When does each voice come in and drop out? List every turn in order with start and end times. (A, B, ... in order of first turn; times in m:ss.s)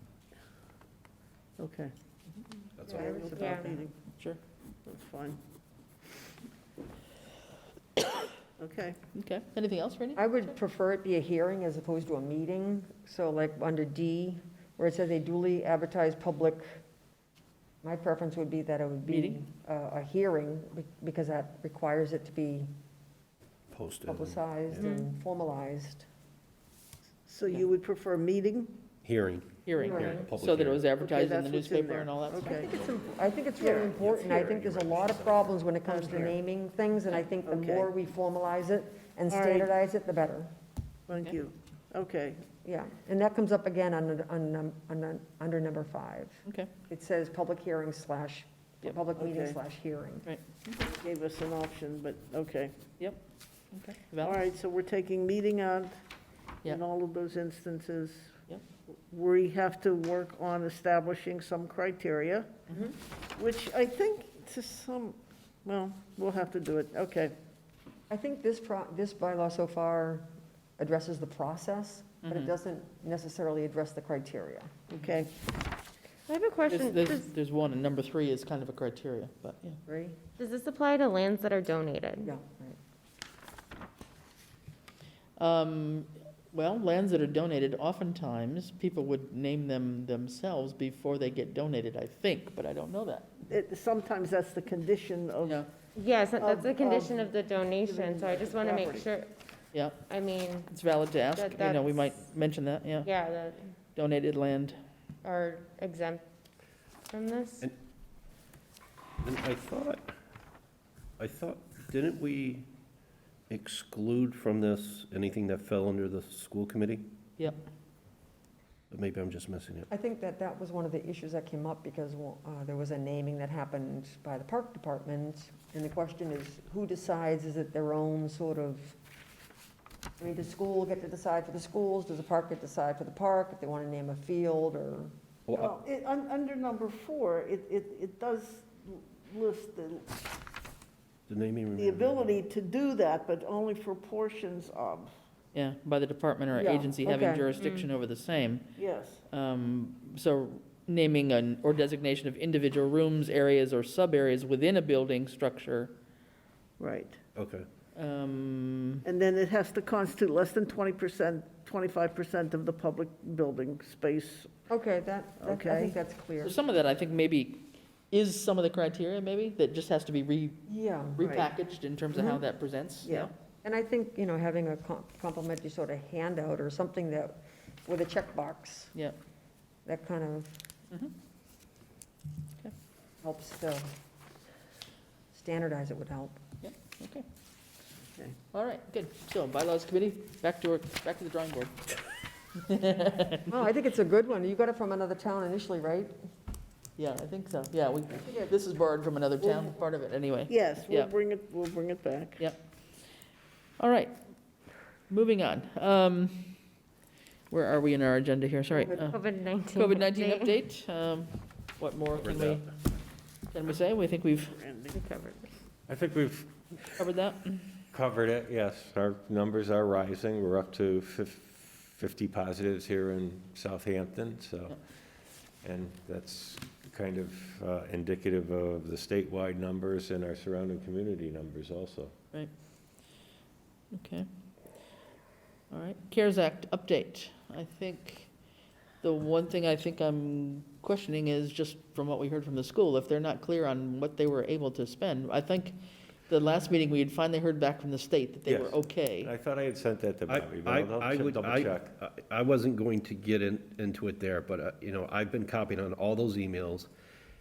0:01.6-0:01.9 A
0:02.8-0:03.1 B
0:02.9-0:03.7 C
0:02.9-0:03.9 A
0:03.0-0:03.8 D
0:04.9-0:05.4 A
0:08.6-0:09.0 A
0:09.1-0:10.5 E
0:10.2-0:16.8 D
0:17.8-0:22.7 D
0:19.0-0:19.4 E
0:23.7-0:24.9 B
0:24.1-0:26.1 D
0:24.8-0:25.1 C
0:27.3-0:28.8 A
0:29.0-0:30.9 B
0:29.7-0:32.6 E
0:29.8-0:30.1 D
0:29.9-0:30.3 C
0:31.0-0:34.2 A
0:32.5-0:40.5 D
0:34.0-0:35.5 B
0:35.8-0:36.4 A
0:37.4-0:37.9 A
0:39.3-0:39.7 A
0:41.1-0:42.4 A
0:42.6-0:50.3 D
0:49.2-0:49.6 A
0:50.3-0:50.9 E
0:50.9-0:52.8 A
0:53.7-0:54.4 E
0:54.2-0:55.9 A
0:56.6-0:58.4 A
0:58.9-1:02.7 A
1:03.4-1:07.4 A
1:08.1-1:14.7 D
1:12.2-1:12.5 E
1:14.9-1:15.3 A
1:16.3-1:17.3 C
1:16.7-1:19.8 E
1:19.9-1:20.2 D
1:20.4-1:22.3 C
1:22.2-1:22.8 D
1:25.4-1:33.4 E
1:33.4-1:35.6 A
1:35.4-1:35.7 E
1:36.0-1:39.3 C
1:36.4-1:39.1 A
1:39.7-1:40.1 E
1:40.0-1:40.8 C
1:40.7-1:43.1 E
1:41.3-1:42.0 C
1:43.0-1:43.7 C
1:44.0-1:44.8 E
1:45.2-1:46.2 C
1:47.1-1:47.7 C
1:49.2-1:50.1 B
1:51.2-1:52.7 B
1:53.5-1:57.1 B
1:58.9-1:59.9 B
1:59.9-2:09.0 D
2:10.2-2:15.1 D
2:15.5-2:15.8 B
2:15.5-2:20.1 A
2:21.3-2:22.3 B
2:21.8-2:25.1 A
2:25.5-2:28.7 E
2:26.5-2:27.5 D
2:27.6-2:27.9 C
2:28.8-2:29.2 A
2:29.3-2:35.9 E
2:36.8-2:37.2 A
2:37.4-2:37.7 B
2:38.0-2:39.0 E
2:39.0-2:44.7 A
2:44.7-2:46.6 D
2:45.4-2:46.0 A
2:46.4-2:50.6 E
2:50.7-2:51.2 D
2:51.2-2:53.3 E
2:51.2-2:51.5 A
2:52.1-2:52.4 D
2:53.0-2:53.3 A
2:53.6-2:58.9 D
2:59.9-3:00.6 D
3:03.2-3:03.9 D
3:05.3-3:06.4 D
3:06.6-3:07.2 E
3:08.5-3:12.0 E
3:12.6-3:13.7 E
3:13.5-3:16.2 D
3:17.0-3:21.1 E
3:18.2-3:18.6 D
3:20.5-3:22.4 A
3:23.8-3:24.2 E
3:25.1-3:26.6 E
3:27.5-3:32.7 E
3:28.7-3:30.6 C
3:32.2-3:32.6 B
3:33.5-3:34.6 E
3:34.5-3:35.0 A
3:34.9-3:35.5 C
3:35.9-3:37.0 F
3:37.0-3:37.7 E
3:37.9-3:44.8 F
3:45.6-3:52.1 F
3:53.9-3:54.3 E
3:55.7-3:58.3 E
3:59.0-4:05.8 E
4:06.3-4:09.3 E
4:08.5-4:11.9 F
4:10.3-4:16.9 B